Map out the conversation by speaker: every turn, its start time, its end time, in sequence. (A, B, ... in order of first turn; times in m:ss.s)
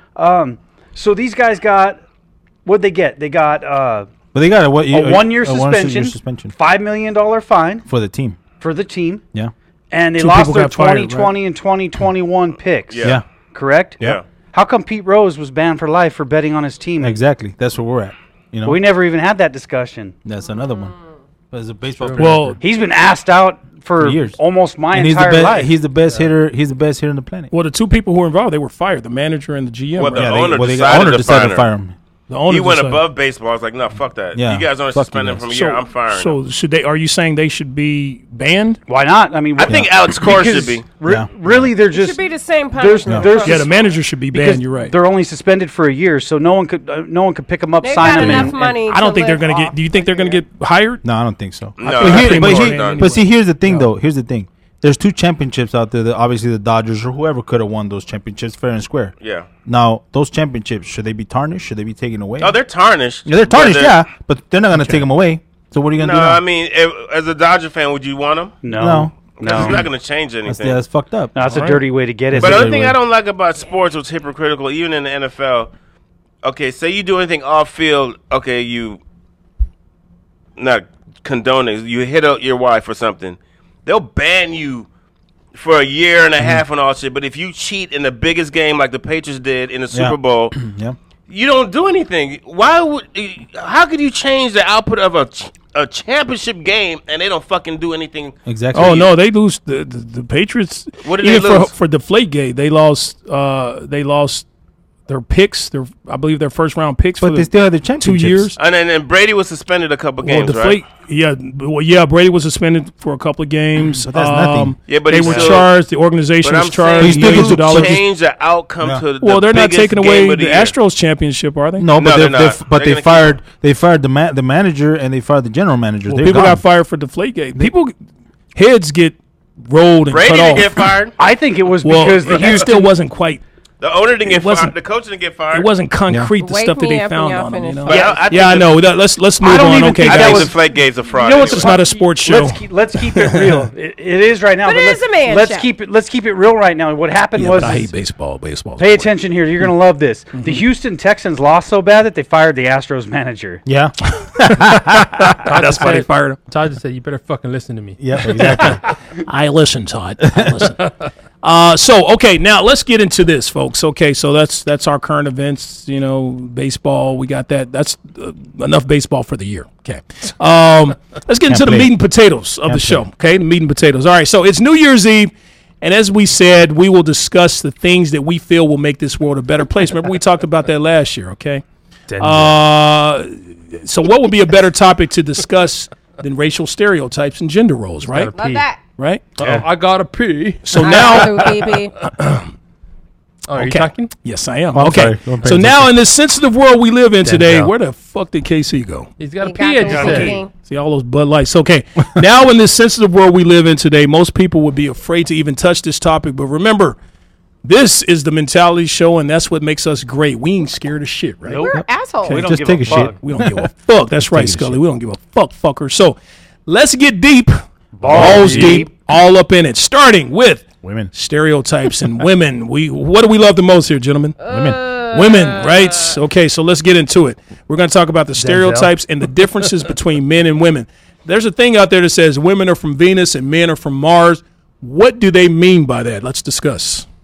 0:00.1-0:02.0 A
0:02.6-0:04.1 A
0:04.3-0:06.5 B
0:04.9-0:07.8 A
0:07.8-0:08.4 B
0:08.6-0:09.2 A
0:09.9-0:17.2 A
0:10.2-0:11.3 C
0:12.9-0:13.2 D
0:17.0-0:18.8 B
0:18.6-0:20.2 A
0:20.2-0:20.9 B
0:21.5-0:22.6 B
0:22.0-0:22.5 E
0:22.2-0:22.6 C
0:22.6-0:25.7 A
0:24.0-0:27.5 B
0:27.5-0:30.6 C
0:30.0-0:31.7 D
0:30.1-0:31.9 B
0:32.3-0:33.0 C
0:32.5-0:36.4 D
0:34.3-0:35.4 B
0:35.5-0:38.8 C
0:38.9-0:42.2 A
0:39.6-0:40.9 D
0:39.6-0:39.9 B
0:41.0-0:41.7 B
0:41.9-0:43.9 F
0:42.7-0:43.8 A
0:43.4-0:44.9 C
0:44.3-0:48.6 A
0:47.8-0:50.4 F
0:48.0-0:48.5 B
0:48.7-0:51.0 C
0:51.0-1:02.6 B
0:51.8-0:53.2 D
0:51.8-0:53.9 C
0:59.2-0:59.5 D
1:02.4-1:04.0 D
1:03.2-1:06.4 B
1:04.7-1:05.0 C
1:06.0-1:08.6 D
1:08.6-1:09.9 A
1:08.8-1:09.1 B
1:09.2-1:10.8 D
1:10.4-1:11.4 B
1:11.3-1:12.9 A
1:11.5-1:11.8 C
1:12.3-1:13.0 B
1:12.4-1:15.7 D
1:16.4-1:19.0 D
1:20.6-1:24.9 D
1:25.5-1:30.6 D
1:29.9-1:31.0 B
1:31.3-1:39.0 D
1:38.5-1:39.1 B
1:38.7-1:44.4 C
1:41.0-1:41.7 D
1:45.1-1:48.6 C
1:47.2-1:48.5 B
1:48.6-1:50.8 D
1:50.2-1:58.0 C
1:53.8-1:55.6 B
1:54.9-1:55.7 D
1:56.4-2:00.7 D
1:57.0-1:58.0 B
1:59.2-2:01.9 C
2:01.8-2:06.6 B
2:02.0-2:03.4 D
2:06.1-2:07.9 C
2:08.5-2:11.0 C
2:10.1-2:11.1 D
2:11.2-2:12.9 A
2:11.8-2:13.4 C
2:13.8-2:15.7 D
2:14.2-2:14.7 C
2:15.5-2:20.5 C
2:16.4-2:18.2 F
2:17.8-2:18.8 D
2:17.9-2:18.2 A
2:19.4-2:27.9 A
2:19.9-2:21.8 D
2:21.2-2:23.7 C
2:24.6-2:25.7 F
2:27.4-2:29.2 C
2:28.8-2:33.6 A
2:33.6-2:35.3 B
2:34.4-2:36.4 C
2:35.4-2:38.8 E
2:38.0-2:38.8 B
2:38.4-2:38.7 C
2:39.3-3:01.6 C
2:51.5-2:51.9 B
2:52.7-2:53.0 B
3:02.1-3:02.6 E
3:02.2-3:08.3 C
3:08.0-3:08.7 E
3:08.3-3:08.8 F
3:09.0-3:09.6 C
3:09.4-3:11.3 E
3:10.6-3:12.5 C
3:10.8-3:11.9 F
3:13.5-3:14.1 E
3:13.5-3:19.1 C
3:14.7-3:15.9 B
3:17.2-3:17.7 E
3:19.2-3:20.4 E
3:19.4-3:20.5 F
3:19.9-3:20.4 A
3:19.9-3:27.0 C
3:27.6-3:31.6 C
3:31.4-3:33.2 A
3:31.5-3:32.4 F
3:31.7-3:33.7 B
3:32.8-3:44.4 C
3:34.3-3:34.8 B
3:38.0-3:38.9 A
3:38.0-3:38.8 B
3:38.4-3:38.6 E
3:40.8-3:41.1 B
3:44.4-3:46.2 F
3:44.5-3:44.8 B
3:45.0-3:57.0 C
3:48.4-3:48.9 A